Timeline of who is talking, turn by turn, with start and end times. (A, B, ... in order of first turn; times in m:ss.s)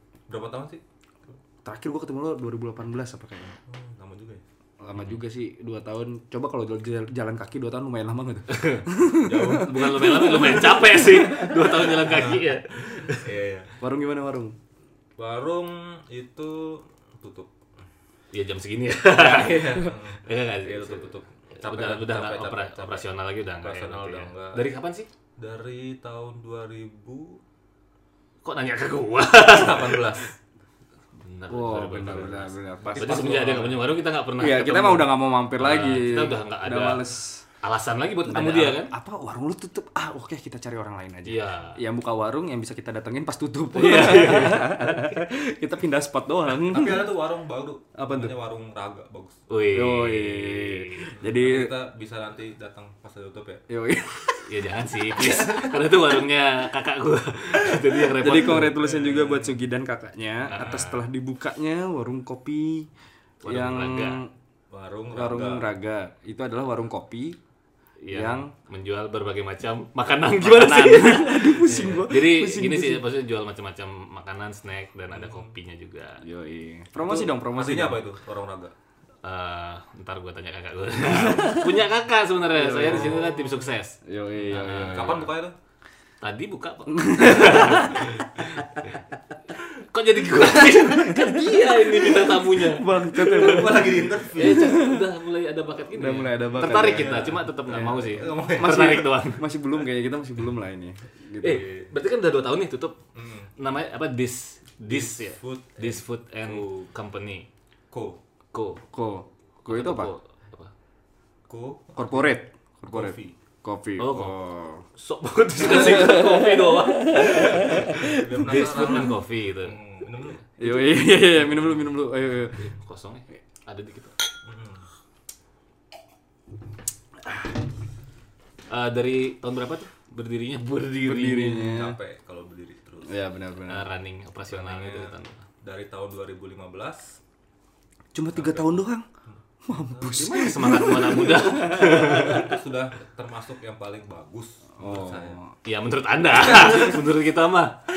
0:00.3-0:00.8 A
0:01.6-0:03.6 B
0:03.7-0:04.4 A
0:04.8-0:11.8 B
0:08.5-0:08.8 C
0:09.2-0:10.1 A
0:09.5-0:13.3 C
0:11.9-0:13.7 A
0:13.8-0:14.6 B
0:15.2-0:17.5 A
0:18.3-0:25.1 C
0:19.2-0:24.6 A
0:25.4-0:27.4 A
0:28.4-0:30.2 C
0:29.4-0:30.3 A
0:31.2-0:37.0 C
0:31.5-0:33.6 B
0:32.9-0:33.8 A
0:34.4-0:37.5 B
0:37.6-0:38.9 C
0:38.2-0:47.2 B
0:41.2-0:41.8 C
0:43.7-0:45.0 C
0:46.5-0:49.5 A
0:48.0-0:48.4 B
0:49.5-0:51.1 C
0:49.7-0:51.7 B
0:51.1-0:53.6 A
0:53.7-0:54.5 B
0:54.4-0:58.8 C
0:57.7-1:02.9 B
0:58.5-0:59.6 A
1:00.5-1:01.1 C
1:03.4-1:04.2 C
1:03.4-1:04.3 B
1:04.7-1:05.7 A
1:05.1-1:07.4 B
1:08.0-1:16.2 C
1:08.1-1:08.5 B
1:10.4-1:13.0 B
1:11.7-1:12.1 A
1:15.1-1:15.5 A
1:16.2-1:18.0 B
1:17.0-1:18.7 A
1:19.2-1:25.3 C
1:21.1-1:21.8 B
1:22.5-1:25.3 B
1:22.9-1:23.3 A
1:24.6-1:25.6 A
1:26.2-1:28.9 C
1:26.9-1:28.2 B
1:29.9-1:39.5 C
1:30.6-1:35.1 B
1:33.2-1:34.8 A
1:35.9-1:41.6 B
1:36.7-1:39.0 A
1:41.4-1:43.0 C
1:41.4-1:41.9 A
1:43.2-1:43.5 A
1:43.6-1:47.5 C
1:44.8-1:46.9 A
1:47.9-1:48.2 A
1:48.5-1:48.8 C
1:48.9-1:50.1 B
1:49.7-1:50.7 C
1:51.5-1:53.4 A
1:52.0-1:54.8 B
1:54.0-1:59.8 C
1:55.6-1:59.2 B
1:57.6-2:00.4 A
2:00.6-2:02.7 B
2:02.6-2:04.1 C
2:04.4-2:04.9 A
2:08.7-2:11.7 C
2:11.0-2:12.0 B
2:11.3-2:13.2 A
2:13.0-2:13.9 B
2:13.6-2:15.4 C
2:14.5-2:17.2 A
2:18.1-2:19.1 B
2:18.3-2:20.3 A
2:19.6-2:22.5 B
2:20.2-2:22.5 C
2:21.6-2:25.4 A
2:24.8-2:25.5 B
2:25.6-2:27.8 C
2:26.7-2:26.9 A